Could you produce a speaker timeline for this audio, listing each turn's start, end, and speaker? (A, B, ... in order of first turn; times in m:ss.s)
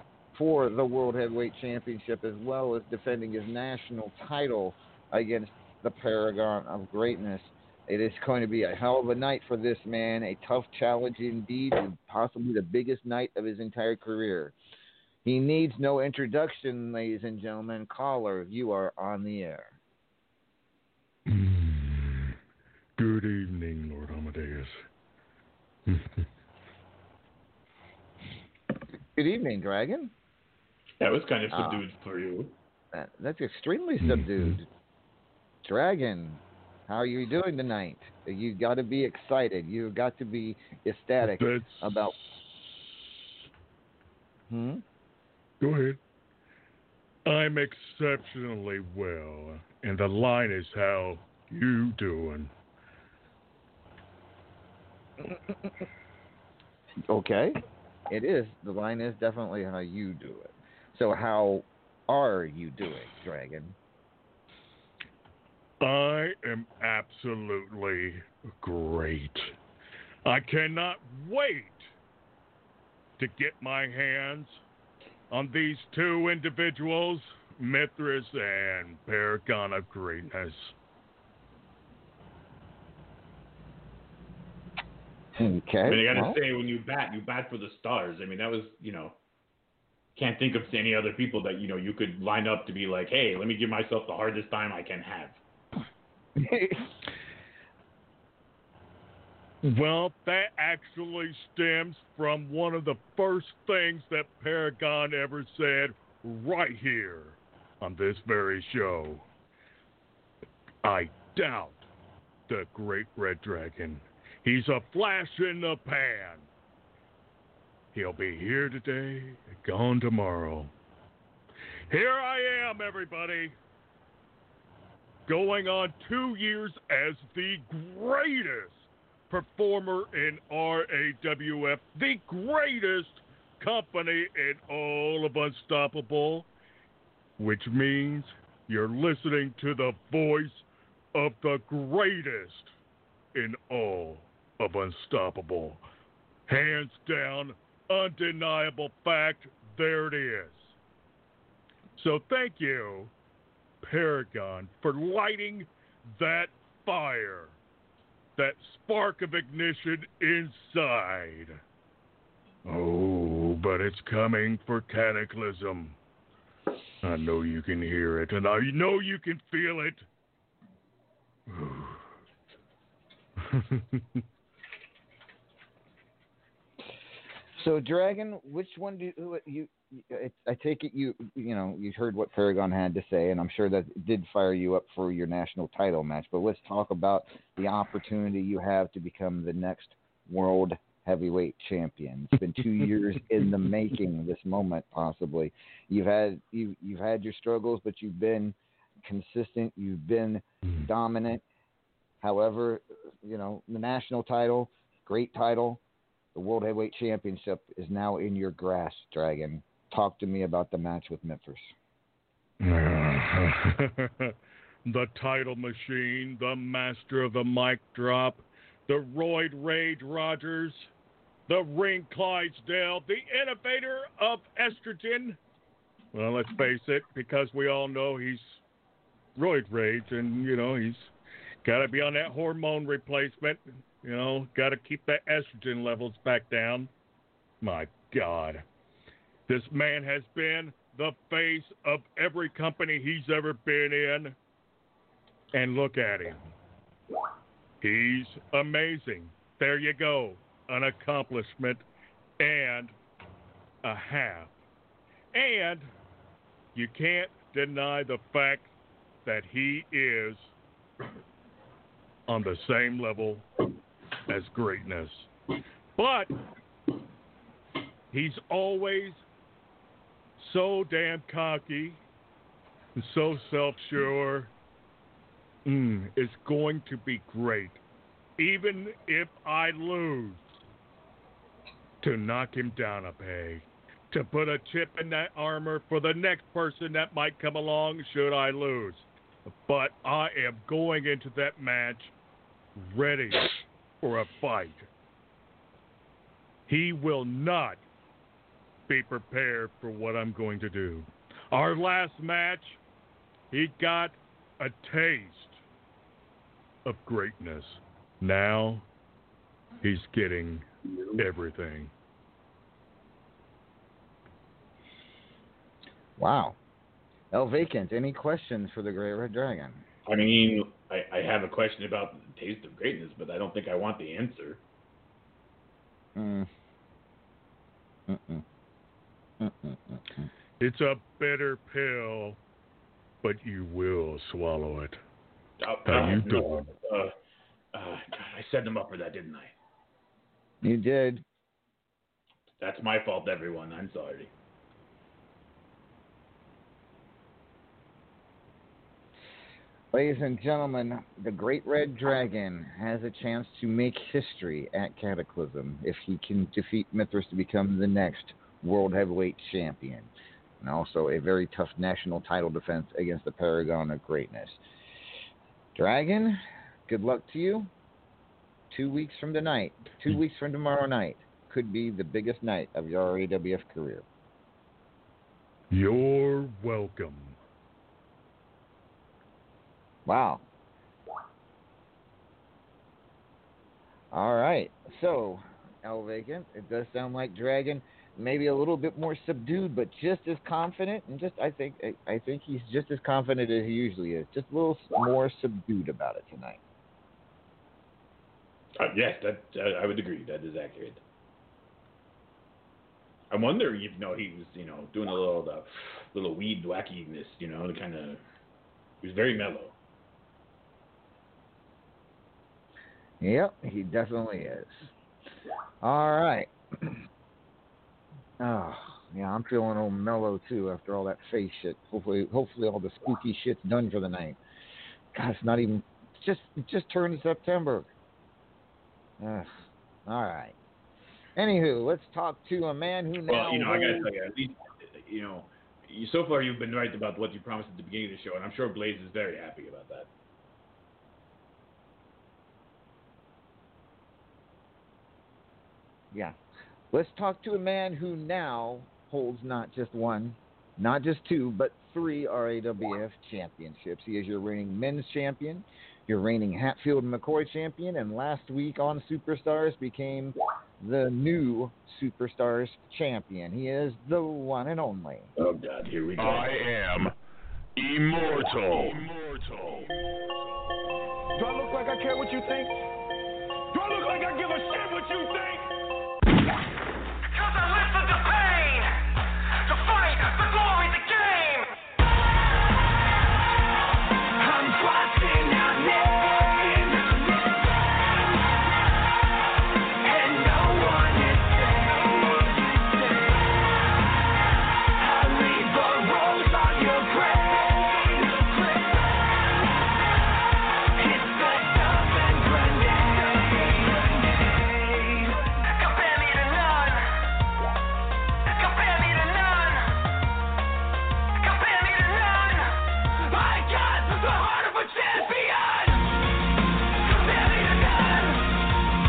0:00.3-0:14.6 A
0:15.2-0:19.8 A
0:21.3-0:22.4 B
0:23.0-0:24.8 B
0:25.9-0:26.2 B
0:29.2-0:30.1 A
0:31.0-0:32.6 C
0:31.5-0:31.8 A
0:32.9-0:34.7 A
0:34.0-0:34.5 B
0:35.6-0:42.2 A
0:41.2-0:42.1 B
0:44.5-0:44.8 A
0:45.6-0:46.0 B
0:47.3-0:52.5 B
0:55.2-0:55.8 A
0:57.1-1:03.8 A
1:05.8-1:09.6 B
1:10.2-1:11.9 B
1:13.2-1:14.6 B
1:15.3-1:20.7 B
1:25.4-1:26.4 A
1:25.8-1:29.2 C
1:30.2-1:35.4 C
1:36.4-1:37.1 A
1:39.6-1:49.3 B
1:50.8-1:51.9 B
1:52.5-1:56.5 B
1:57.9-2:00.7 B
2:01.9-2:03.6 B
2:05.3-2:16.5 B
2:17.4-2:22.7 B
2:23.3-2:25.8 B
2:26.5-2:30.8 B
2:32.0-2:33.1 B
2:33.8-2:37.6 B
2:38.4-2:41.6 B
2:42.6-2:46.0 B
2:47.0-2:50.1 B
2:51.5-2:52.0 B
2:53.4-2:54.2 B
2:57.6-3:21.4 A
3:22.2-3:25.8 A
3:26.4-3:31.7 A
3:32.6-3:40.9 B
3:41.5-3:45.4 B
3:46.1-3:48.6 B
3:49.4-3:51.1 B
3:51.6-3:56.9 B
3:57.6-3:58.6 B
3:59.5-4:04.4 B
4:05.5-4:06.4 B
4:07.8-4:11.8 B
4:12.4-4:12.9 B
4:13.8-4:14.6 B
4:15.3-4:15.9 B
4:16.7-4:18.7 B
4:19.2-4:20.5 B
4:22.3-4:23.5 B
4:24.3-4:25.3 B
4:26.0-4:26.3 B
4:28.1-4:29.2 B
4:30.4-4:32.0 B
4:33.0-4:34.5 B
4:35.6-4:37.8 B
4:38.4-4:40.4 B
4:42.0-4:52.1 B
4:52.8-4:54.9 B
4:56.7-4:57.8 B
4:58.9-5:02.8 B
5:03.5-5:05.6 B
5:06.8-5:08.8 B
5:09.8-5:11.9 B
5:10.9-5:11.2 C
5:16.2-5:16.6 A
5:17.3-5:19.8 A
5:20.1-5:24.6 C
5:26.2-5:26.5 A
5:28.1-5:28.4 A
5:29.4-5:30.3 A
5:30.6-5:32.4 B
5:33.2-5:35.0 B
5:35.6-5:37.1 C
5:35.9-5:36.7 B
5:37.7-5:39.5 C
5:40.6-5:41.2 A
5:42.6-5:44.3 C
5:49.9-6:04.6 A
6:05.8-6:07.7 A
6:08.7-6:14.0 A
6:15.7-6:17.4 B
6:20.1-6:20.4 A
6:24.1-6:36.6 A
6:38.8-6:41.0 C
6:43.3-6:48.2 C
6:49.0-6:49.8 C
6:53.2-6:54.9 A
6:55.8-6:57.0 A
6:58.4-7:04.4 A
7:05.1-7:07.9 A
7:09.2-7:10.6 A
7:11.4-7:14.1 A
7:13.3-7:20.1 C
7:26.9-7:45.3 A
7:45.4-7:46.5 C
7:46.2-7:47.1 D
7:47.8-7:49.9 D
7:48.7-7:49.0 C
7:51.4-7:52.7 E
7:53.7-7:55.7 E
7:57.3-7:59.0 E
7:59.6-8:01.7 E
8:04.4-8:07.4 E
8:10.0-8:12.3 E
8:15.1-8:19.2 E
8:21.0-8:27.1 E
8:28.5-8:29.9 E
8:31.4-8:32.8 E
8:33.3-8:36.0 E
8:37.1-8:38.4 E